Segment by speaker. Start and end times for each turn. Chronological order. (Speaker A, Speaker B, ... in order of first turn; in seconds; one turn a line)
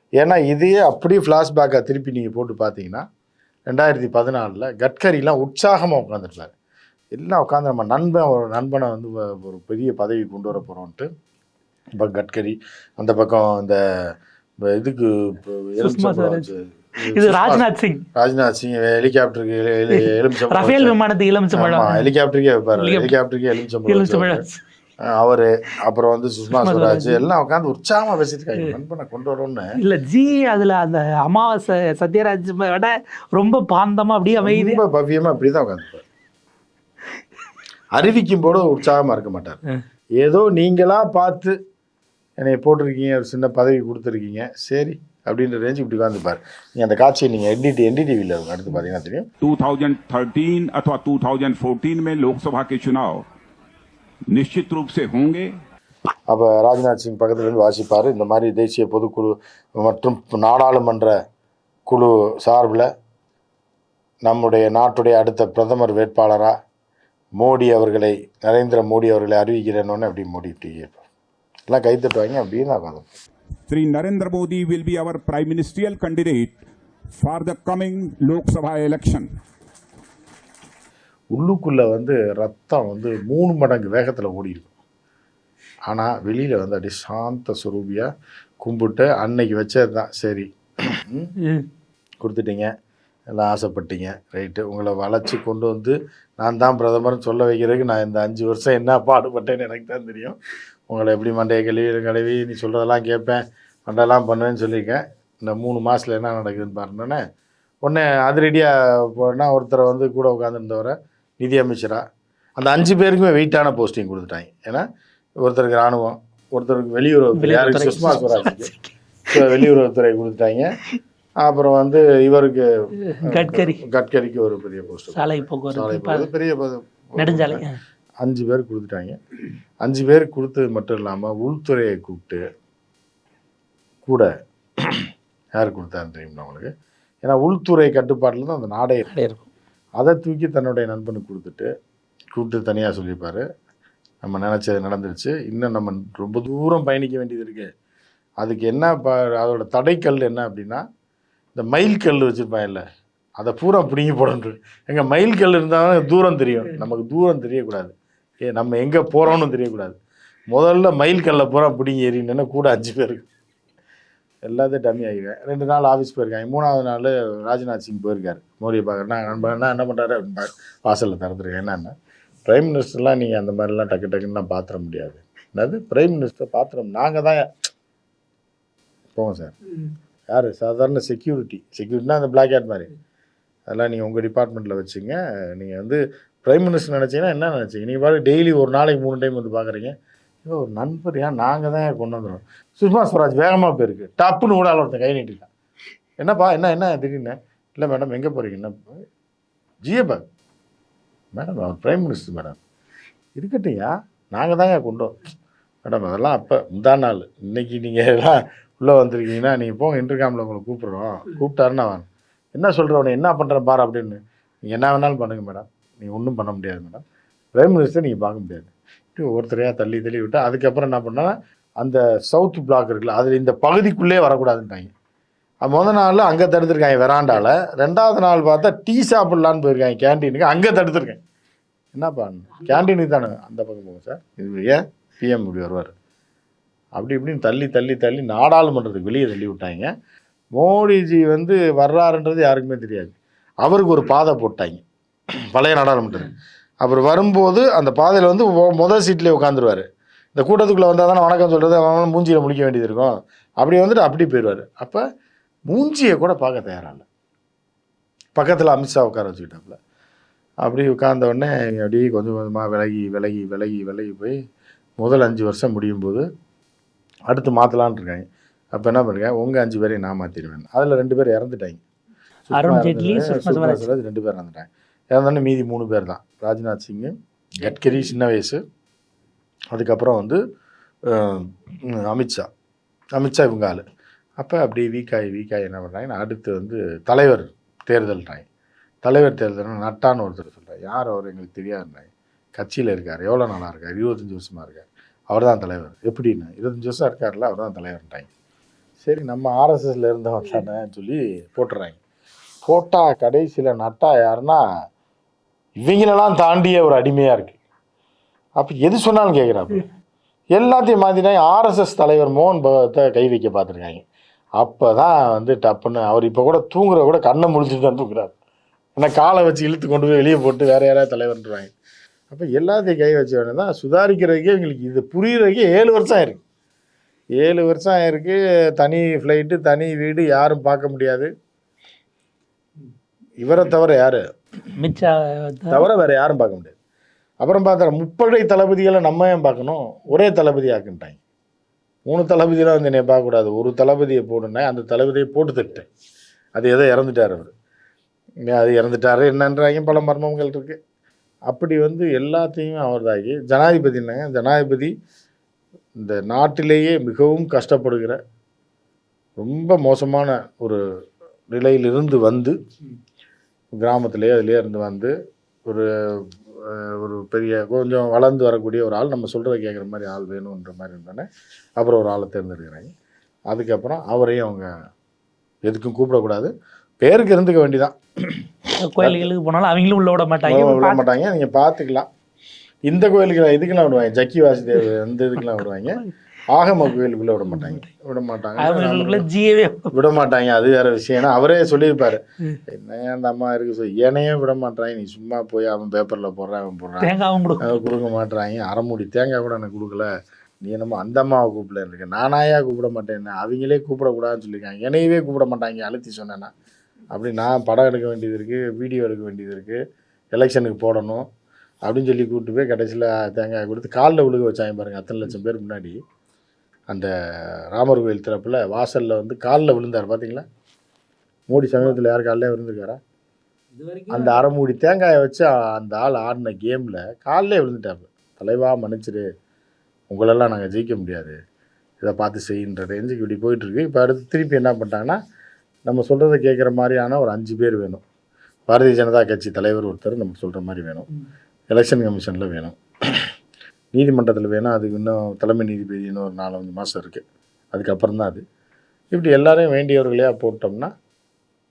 Speaker A: 0.2-3.0
Speaker A: 3.7-6.5
Speaker A: 7.1-11.1
Speaker A: 11.9-13.8
Speaker A: 14.7-20.9
Speaker B: 15.8-16.5
Speaker B: 17.1-18.0
Speaker B: 19.9-22.1
Speaker A: 21.6-24.4
Speaker B: 22.8-23.1
Speaker B: 23.9-24.6
Speaker A: 25.1-29.7
Speaker B: 26.5-27.2
Speaker B: 29.8-34.8
Speaker A: 34.4-36.0
Speaker A: 38.0-39.6
Speaker A: 40.2-41.5
Speaker A: 42.4-49.3
Speaker C: 49.4-53.2
Speaker C: 54.3-55.5
Speaker A: 56.3-61.1
Speaker A: 61.9-62.9
Speaker A: 64.2-66.5
Speaker A: 67.4-71.0
Speaker A: 71.7-73.1
Speaker C: 73.7-76.6
Speaker C: 77.2-79.3
Speaker A: 81.3-84.7
Speaker A: 85.9-88.1
Speaker A: 88.6-91.3
Speaker B: 91.4-91.7
Speaker A: 92.2-92.7
Speaker A: 93.3-100.4
Speaker A: 100.9-107.2
Speaker A: 107.8-112.0
Speaker A: 112.6-114.8
Speaker A: 115.4-118.7
Speaker B: 117.4-119.7
Speaker A: 119.3-120.7
Speaker A: 121.4-122.6
Speaker B: 123.0-123.8
Speaker A: 123.3-127.6
Speaker B: 125.1-126.3
Speaker B: 127.2-127.8
Speaker A: 128.2-129.2
Speaker A: 129.8-132.4
Speaker A: 134.9-136.7
Speaker A: 137.2-139.1
Speaker B: 139.1-139.5
Speaker A: 140.0-141.7
Speaker A: 142.3-143.4
Speaker A: 144.2-147.7
Speaker A: 148.4-150.8
Speaker A: 151.6-152.8
Speaker A: 153.4-157.9
Speaker A: 158.5-160.0
Speaker A: 160.5-163.3
Speaker A: 164.5-171.9
Speaker A: 172.5-177.5
Speaker A: 179.1-179.5
Speaker A: 180.3-182.9
Speaker A: 183.7-195.5
Speaker A: 196.2-198.7
Speaker A: 199.8-200.2
Speaker A: 201.3-202.6
Speaker A: 203.4-205.3
Speaker A: 205.8-212.0
Speaker A: 212.6-217.0
Speaker A: 217.6-224.9
Speaker A: 225.6-231.2
Speaker A: 231.9-235.9
Speaker A: 237.0-239.9
Speaker A: 240.6-244.8
Speaker A: 245.5-246.3
Speaker A: 246.8-249.8
Speaker A: 250.3-255.0
Speaker A: 255.7-257.0
Speaker A: 258.4-259.8
Speaker A: 260.6-264.4
Speaker A: 265.0-266.2
Speaker A: 267.3-271.8
Speaker A: 272.5-278.6
Speaker B: 272.5-273.9
Speaker A: 279.7-280.4
Speaker A: 281.1-281.5
Speaker A: 282.1-282.5
Speaker A: 283.1-283.8
Speaker A: 284.4-288.4
Speaker A: 289.0-298.3
Speaker A: 299.0-302.0
Speaker A: 302.6-304.6
Speaker A: 305.8-307.6
Speaker A: 308.6-309.9
Speaker A: 310.6-314.0
Speaker A: 314.6-318.3
Speaker A: 319.0-321.7
Speaker A: 322.3-326.4
Speaker A: 327.4-331.3
Speaker A: 333.4-334.2
Speaker B: 334.8-335.9
Speaker A: 335.7-336.7
Speaker A: 337.4-341.2
Speaker A: 342.1-345.9
Speaker A: 346.6-347.5
Speaker A: 348.5-350.8
Speaker A: 351.5-354.9
Speaker A: 356.0-358.2
Speaker A: 359.4-360.8
Speaker A: 361.5-362.6
Speaker A: 363.8-365.1
Speaker A: 366.6-371.2
Speaker A: 371.8-372.9
Speaker A: 373.5-374.7
Speaker A: 375.6-378.4
Speaker B: 378.8-381.0
Speaker A: 379.0-379.2
Speaker A: 380.4-382.1
Speaker A: 382.9-389.2
Speaker B: 387.6-387.8
Speaker B: 388.6-389.9
Speaker A: 389.9-397.1
Speaker B: 397.0-397.7
Speaker A: 397.6-400.1
Speaker A: 400.6-406.5
Speaker A: 407.1-409.8
Speaker A: 410.3-411.2
Speaker A: 411.9-416.0
Speaker A: 417.7-420.4
Speaker A: 421.5-423.0
Speaker B: 421.7-421.9
Speaker B: 423.8-424.5
Speaker A: 424.1-429.2
Speaker A: 430.1-431.4
Speaker A: 432.0-435.2
Speaker A: 435.9-438.0
Speaker A: 438.7-441.1
Speaker A: 441.7-443.2
Speaker A: 443.9-448.4
Speaker A: 449.1-450.9